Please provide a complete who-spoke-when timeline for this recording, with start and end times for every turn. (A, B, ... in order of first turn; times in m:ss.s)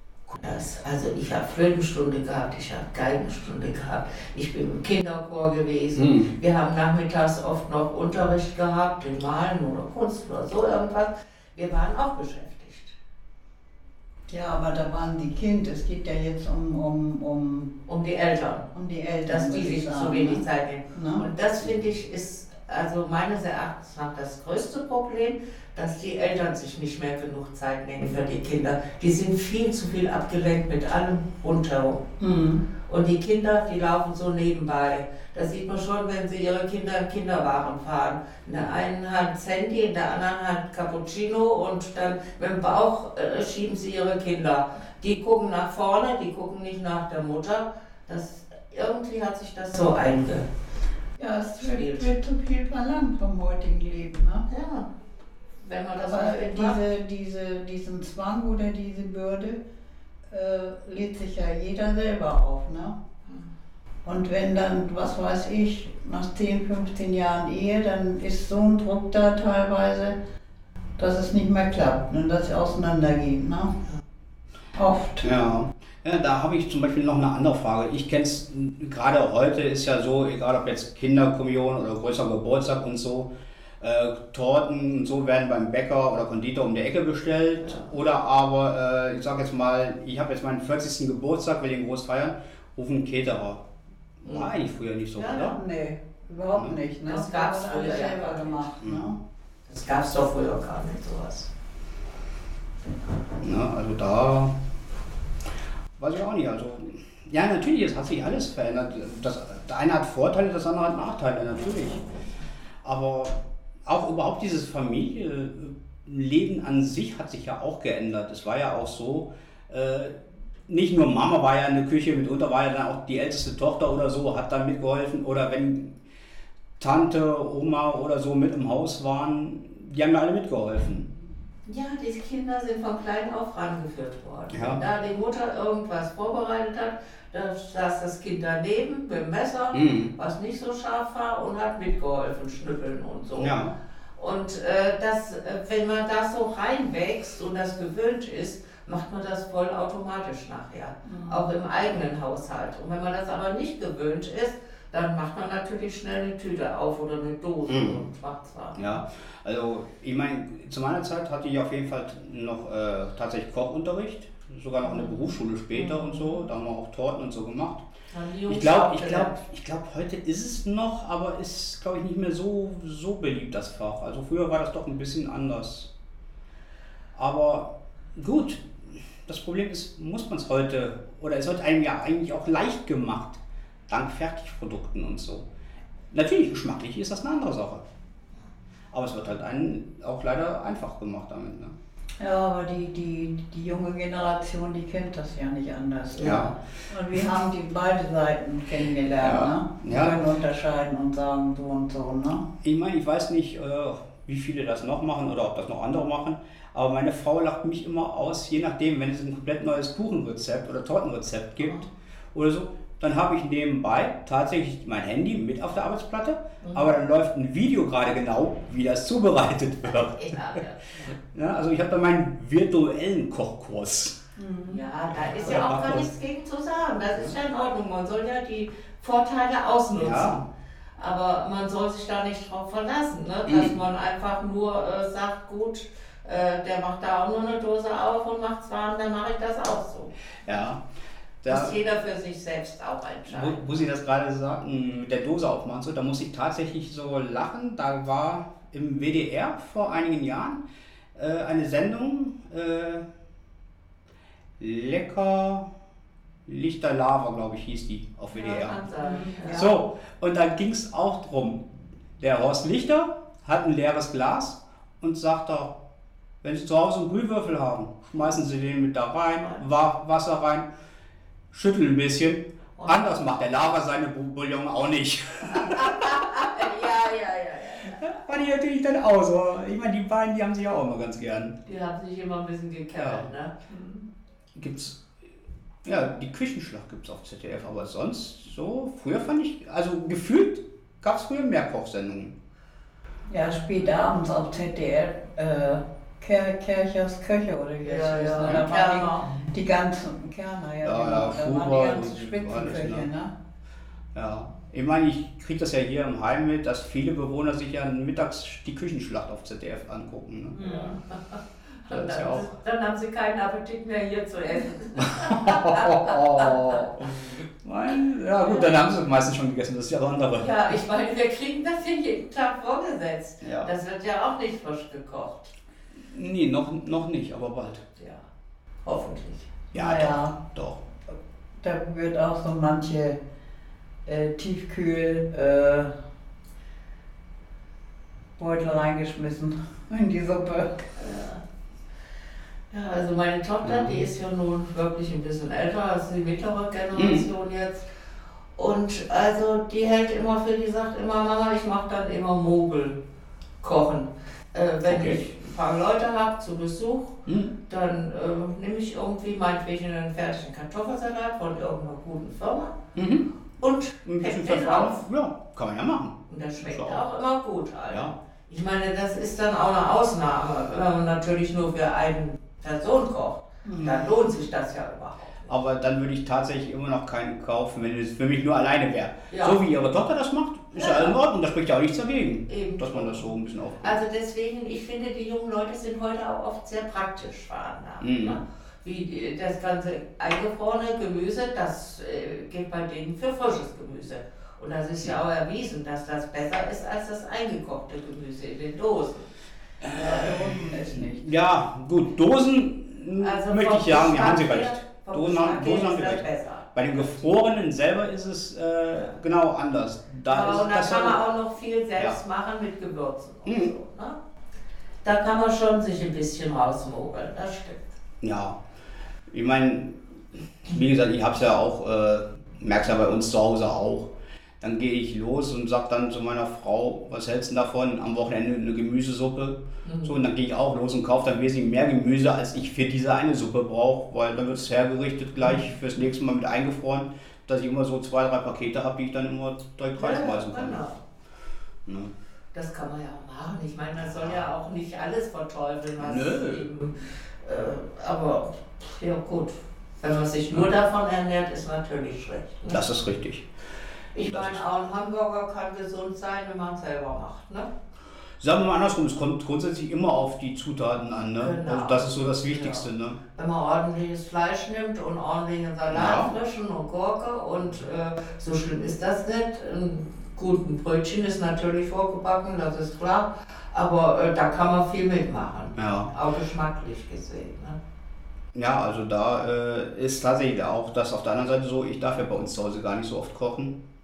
0:00.3-0:12.9 A
0:06.0-0:06.3 B
0:14.3-0:17.7 C
0:17.9-0:18.7 A
0:18.7-0:21.3 C
0:19.2-0:32.0 A
0:32.2-0:32.6 C
0:32.8-0:50.5 A
0:51.2-0:54.5 C
0:51.6-0:52.1 A
0:54.5-0:54.9 A
0:55.6-0:56.8 A
0:56.0-0:59.6 C
1:00.3-1:03.0 C
1:04.0-1:10.1 C
1:11.0-1:13.7 C
1:14.8-1:15.3 C
1:15.2-1:33.6 B
1:34.2-1:35.6 B
1:34.2-1:34.5 A
1:35.2-1:35.6 A
1:35.5-1:39.2 C
1:37.1-1:38.8 A
1:39.7-1:41.5 A
1:43.4-1:44.5 B
1:46.0-1:52.0 B
1:52.8-2:00.2 B
2:00.7-2:06.0 B
2:06.8-2:11.1 B
2:11.7-2:23.6 A
2:14.5-2:14.9 B
2:19.7-2:20.1 B
2:23.4-2:23.7 B
2:24.2-2:39.0 A
2:31.0-2:31.5 C
2:37.7-2:38.0 B
2:38.8-2:47.8 B
2:44.8-2:46.3 A
2:48.1-2:49.4 A
2:48.5-2:55.9 B
2:57.2-3:05.4 B
3:06.1-3:07.8 B
3:08.9-3:11.8 B
3:12.2-3:22.5 C
3:16.2-3:16.6 B
3:19.2-3:20.2 B
3:22.6-3:40.4 B
3:36.6-3:36.9 A
3:40.1-3:41.1 A
3:41.3-3:44.2 B
3:44.4-3:44.8 C
3:44.7-3:50.4 A
3:45.1-3:46.1 B
3:49.9-3:50.4 B
3:51.0-4:00.1 A
3:53.5-3:53.7 B
4:00.4-4:00.8 B
4:01.4-4:01.8 B
4:01.5-4:03.9 A
4:03.3-4:10.6 B
4:11.2-4:13.0 B
4:14.6-4:15.7 B
4:16.5-4:18.9 B
4:18.3-4:19.8 A
4:19.1-4:19.5 C
4:19.5-4:25.8 B
4:26.4-4:30.7 B
4:31.5-4:36.2 B
4:32.8-4:33.2 A
4:35.6-4:38.0 A
4:37.9-4:41.6 B
4:41.6-4:44.1 A
4:43.0-4:43.3 B
4:44.6-4:45.0 B
4:45.8-4:52.4 B
4:53.3-5:03.3 C
4:57.8-4:59.4 A
5:00.8-5:03.1 B
5:04.1-5:10.9 B
5:10.6-5:11.1 A
5:11.8-5:17.2 A
5:11.9-5:12.5 B
5:15.1-5:20.5 B
5:18.4-5:18.7 A
5:20.4-5:25.5 A
5:23.4-5:23.7 B
5:26.1-5:27.8 B
5:28.0-5:28.2 A
5:28.8-5:29.5 A
5:29.7-5:30.8 B
5:29.8-5:30.4 C
5:31.6-5:33.2 C
5:34.1-5:35.9 C
5:38.4-5:40.8 C
5:41.0-5:41.4 A
5:42.7-5:47.9 A
5:43.6-5:44.0 B
5:46.9-5:47.3 B
5:48.6-5:53.0 A
5:53.6-6:02.8 A
5:54.9-5:55.2 B
5:57.3-5:57.5 B
6:03.0-6:03.3 B
6:03.6-6:05.0 A
6:04.0-6:07.0 B
6:06.3-6:15.5 A
6:13.8-6:14.1 B
6:15.5-6:24.0 B
6:19.3-6:19.6 A
6:20.8-6:21.2 A
6:22.5-6:23.3 A
6:23.8-6:39.3 A
6:28.0-6:28.4 B
6:39.8-6:51.2 B
6:40.0-6:41.2 C
6:43.2-6:47.3 A
6:50.3-6:54.2 A
6:53.4-6:53.7 B
6:55.0-6:58.0 A
6:58.2-6:58.6 B
6:59.3-7:20.8 B
7:09.8-7:10.1 A
7:20.0-7:21.0 A
7:21.9-7:22.1 B
7:22.5-7:32.9 A
7:26.0-7:26.7 B
7:32.7-7:33.5 B
7:34.1-7:37.7 A
7:34.2-7:34.6 B
7:38.4-7:43.2 B
7:41.4-7:57.8 A
7:45.9-7:46.4 B
7:55.8-7:56.1 B
7:58.6-8:03.8 B